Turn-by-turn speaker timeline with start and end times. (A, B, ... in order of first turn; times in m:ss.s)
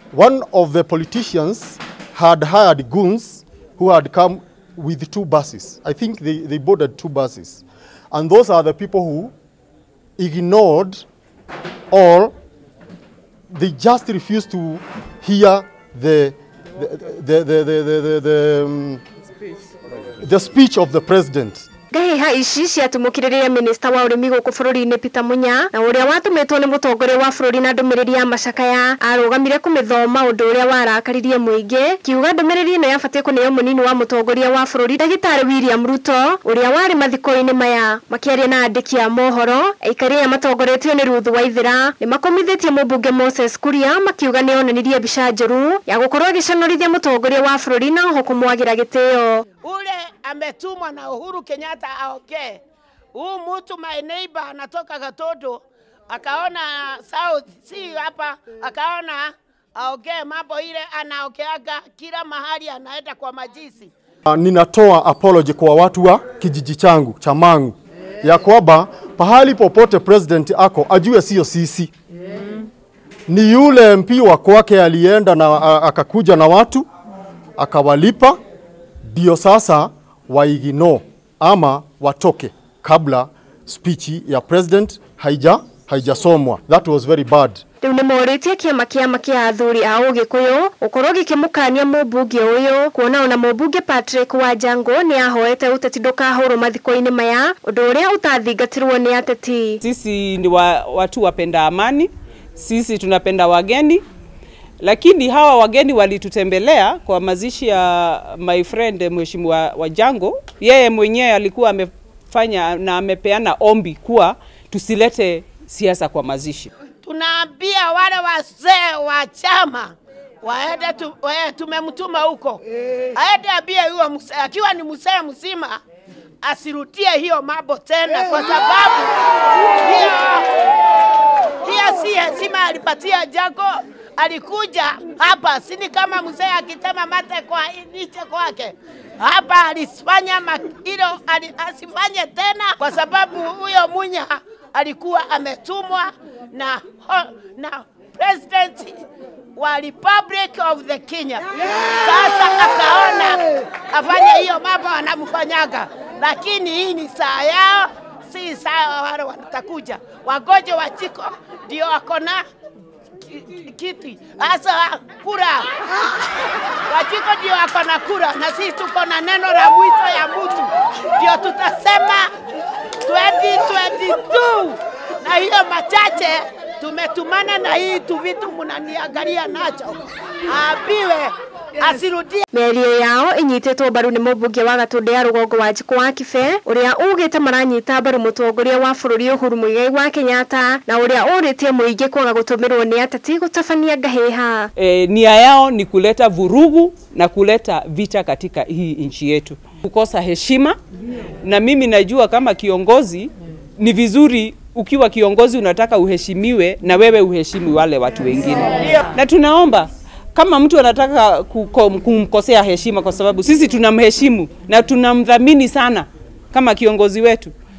0:00.1-0:09.3 A
0:10.2-0:11.0 A
0:11.9-0:12.3 A
0:13.5-0:19.0 A
0:20.2-0:21.6 A
0:21.9-0:49.4 B
0:49.6-0:52.6 C
0:53.1-1:03.9 C
1:04.3-1:11.9 A
1:13.3-1:16.9 A
1:17.6-1:18.4 A
1:19.1-1:27.6 A
1:27.8-1:39.8 B
1:39.8-1:44.0 D
1:44.8-1:56.7 D
1:57.0-2:02.6 C
2:03.1-2:05.8 C
2:06.4-2:10.5 C
2:11.6-2:29.0 C
2:29.6-2:42.4 C
2:43.2-2:45.7 C
2:46.9-2:52.3 C
2:53.0-3:02.4 C
3:02.5-3:14.7 B
3:14.8-3:20.8 D
3:21.4-3:37.5 D